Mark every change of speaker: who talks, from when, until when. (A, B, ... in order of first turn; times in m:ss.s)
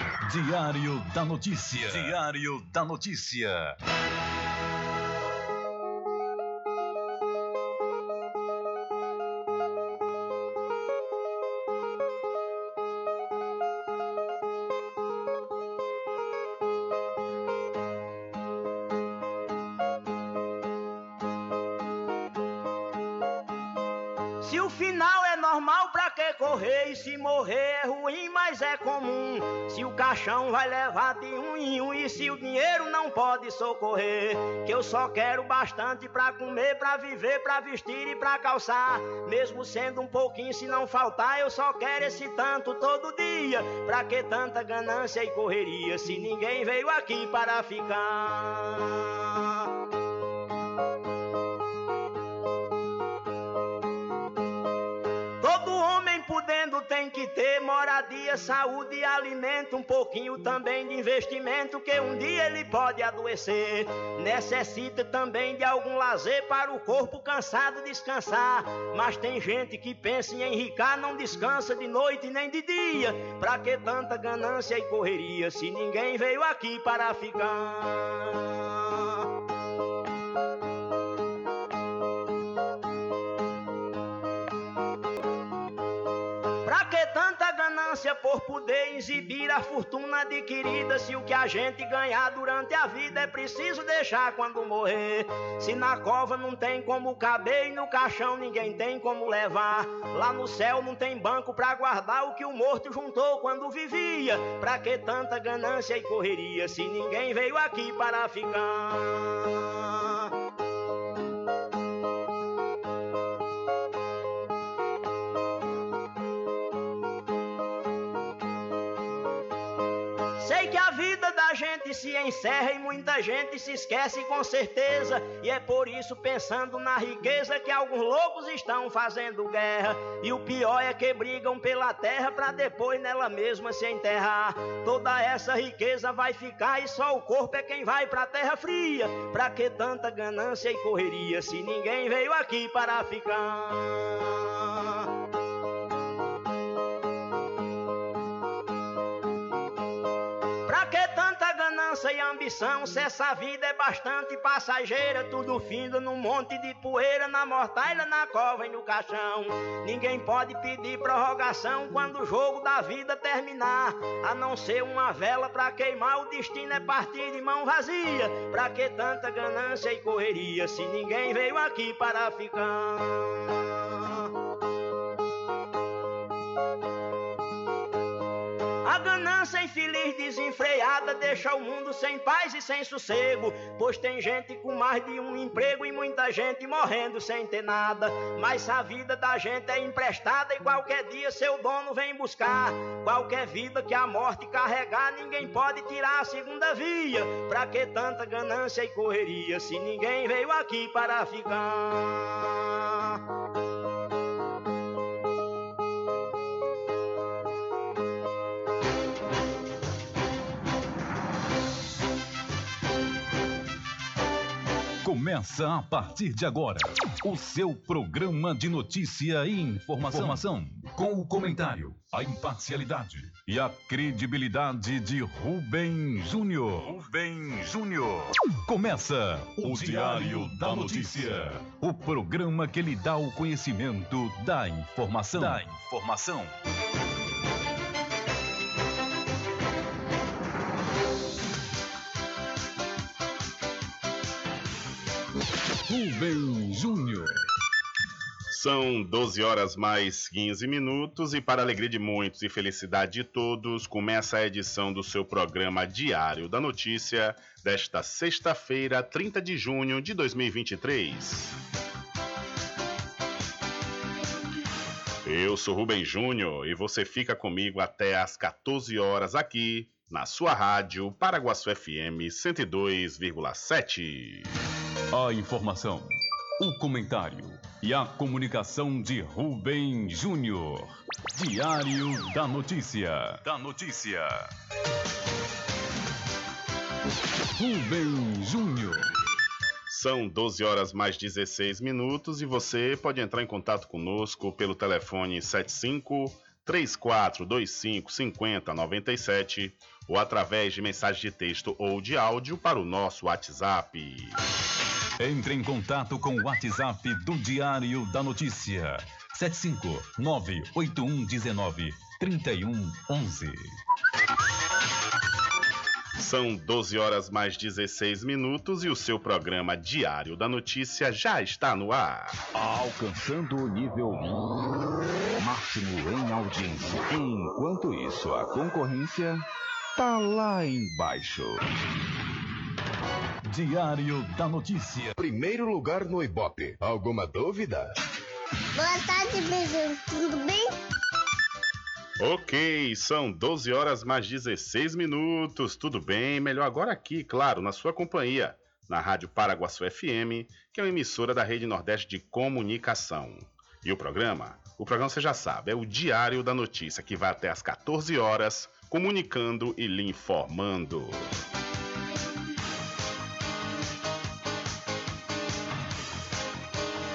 0:00.2-0:03.8 A
0:01.9-0:02.2 B
0:24.4-0:49.6 C
0:55.4-1:19.2 C
1:26.7-1:50.3 C
2:00.4-2:25.0 C
2:30.7-2:54.3 C
2:58.8-3:22.8 C
3:35.0-3:56.6 A
4:05.9-4:07.3 A
4:08.5-4:21.6 D
4:25.2-4:34.5 D
4:35.1-4:36.1 A
4:36.6-4:44.5 A
4:47.6-4:49.0 A
4:49.9-5:04.4 D
5:05.2-5:13.7 A
5:16.2-5:22.4 D
5:22.5-5:24.6 B
5:25.4-5:29.4 B
5:30.0-5:31.6 B
5:33.5-5:35.1 A
5:35.2-5:38.0 B
5:38.8-5:40.7 E
5:42.2-6:01.3 D